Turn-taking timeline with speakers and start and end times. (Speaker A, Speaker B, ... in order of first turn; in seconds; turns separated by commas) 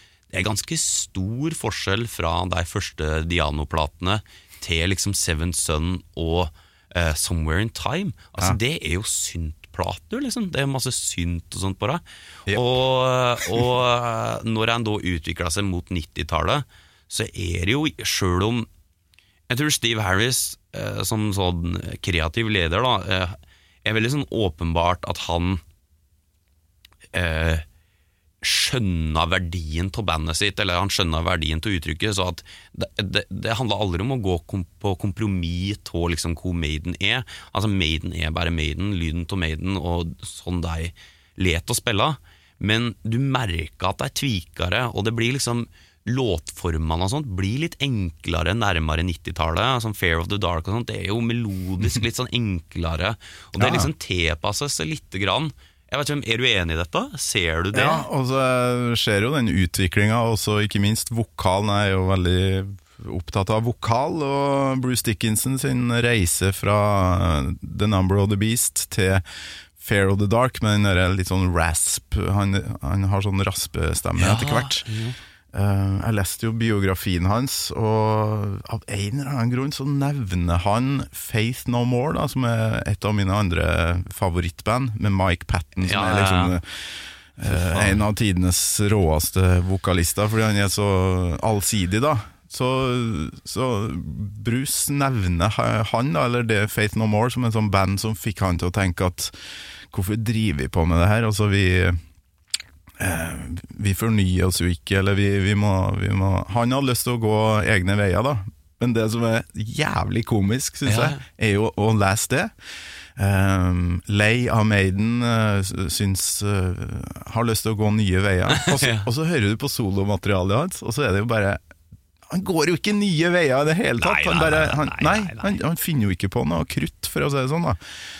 Speaker A: 0.3-18.7, Speaker A: 19.5-25.6, Speaker A: 27.1-27.6, Speaker A: 28.4-58.0, Speaker B: 53.6-53.9, Speaker B: 57.7-69.2, Speaker B: 69.8-74.9, Speaker A: 74.2-75.2, Speaker B: 75.5-86.6, Speaker A: 85.8-86.5, Speaker B: 87.3-99.3, Speaker A: 87.5-88.0, Speaker B: 99.9-102.0, Speaker B: 103.0-112.5, Speaker A: 110.8-111.2, Speaker B: 113.2-121.6, Speaker A: 118.5-119.0, Speaker B: 122.3-127.8, Speaker A: 124.0-125.6